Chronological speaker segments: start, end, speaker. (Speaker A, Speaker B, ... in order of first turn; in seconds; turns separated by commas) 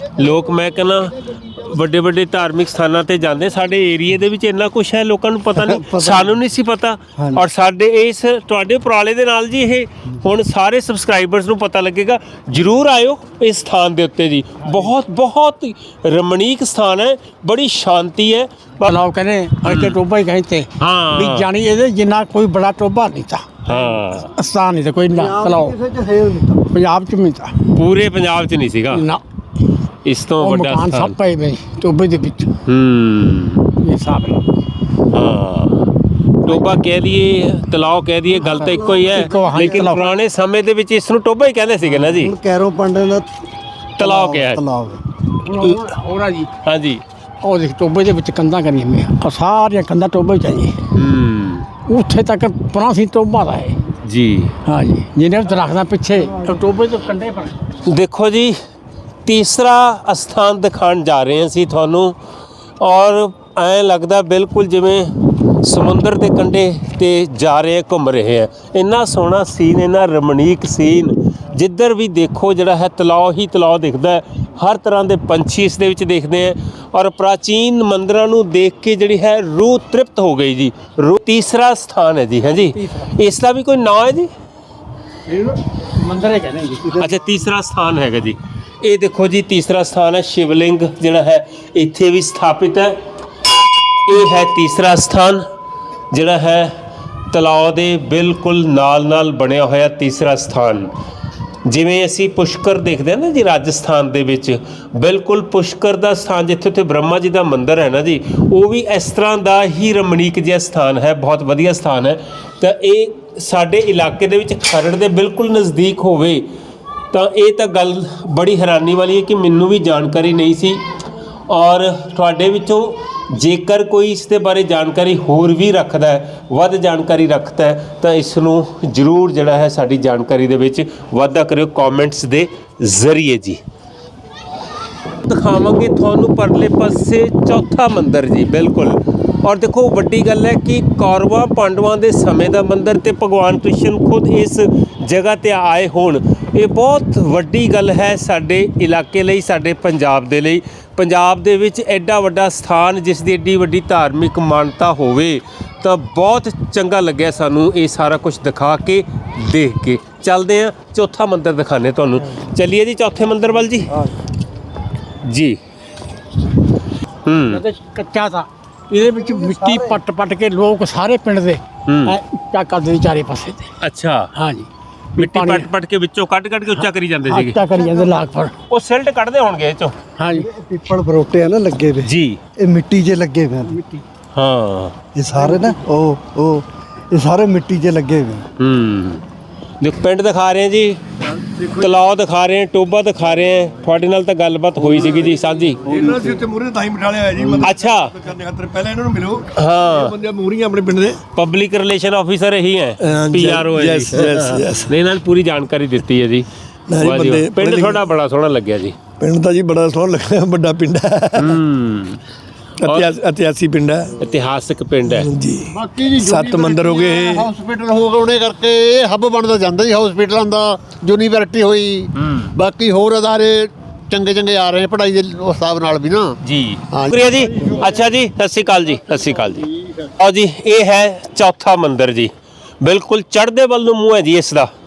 Speaker A: 0.1-18.9, Speaker B: 5.5-6.4, Speaker B: 7.2-7.4, Speaker C: 18.9-23.6, Speaker A: 19.6-19.9, Speaker A: 20.8-21.5, Speaker A: 23.6-24.3, Speaker C: 24.2-25.8, Speaker B: 25.1-26.7, Speaker C: 26.7-27.6, Speaker A: 27.7-29.0, Speaker C: 28.9-29.2, Speaker A: 30.0-31.1, Speaker C: 30.4-32.5, Speaker A: 32.6-33.7, Speaker C: 33.8-34.4, Speaker A: 35.1-35.9, Speaker A: 36.5-42.3, Speaker B: 38.3-39.9, Speaker C: 38.5-40.1, Speaker B: 41.8-43.3, Speaker A: 44.0-44.6, Speaker B: 44.0-45.0, Speaker C: 45.4-46.5, Speaker A: 46.6-47.0, Speaker C: 47.4-50.8, Speaker A: 50.9-51.7, Speaker C: 51.9-53.8, Speaker A: 54.0-54.5, Speaker C: 54.6-57.6, Speaker A: 57.9-58.6, Speaker A: 59.2-62.1, Speaker A: 62.8-84.3, Speaker C: 82.7-83.1, Speaker C: 85.3-86.9, Speaker B: 86.8-87.1, Speaker A: 87.0-93.0, Speaker A: 94.0-95.4, Speaker A: 96.1-96.7, Speaker A: 97.3-100.9, Speaker A: 101.7-116.5, Speaker A: 117.1-120.8, Speaker A: 121.5-133.6, Speaker A: 135.2-163.9, Speaker A: 165.2-165.6, Speaker A: 167.2-167.6, Speaker C: 167.5-173.7, Speaker B: 169.0-170.0, Speaker A: 171.9-172.2, Speaker A: 173.8-174.3, Speaker C: 174.3-175.7, Speaker A: 175.2-177.6, Speaker C: 176.8-178.5, Speaker B: 177.7-178.1, Speaker A: 178.7-179.9, Speaker C: 180.2-180.5, Speaker B: 180.3-183.8, Speaker A: 182.0-182.4, Speaker A: 184.3-184.9, Speaker B: 185.1-188.5, Speaker A: 188.6-189.2, Speaker A: 189.8-191.0, Speaker D: 191.4-191.9, Speaker A: 191.6-195.8, Speaker D: 194.8-195.3, Speaker D: 195.8-201.2, Speaker B: 195.8-196.4, Speaker A: 197.6-198.2, Speaker A: 199.5-200.2, Speaker A: 201.3-208.9, Speaker D: 203.0-204.9, Speaker D: 206.9-208.0, Speaker D: 209.2-211.6, Speaker A: 211.4-212.2, Speaker D: 212.8-214.1, Speaker A: 212.8-213.1, Speaker A: 214.2-215.3, Speaker D: 215.1-215.6, Speaker C: 215.7-217.3, Speaker E: 215.9-226.3, Speaker D: 216.2-217.5, Speaker A: 222.2-222.5, Speaker A: 226.4-229.7, Speaker A: 230.2-234.7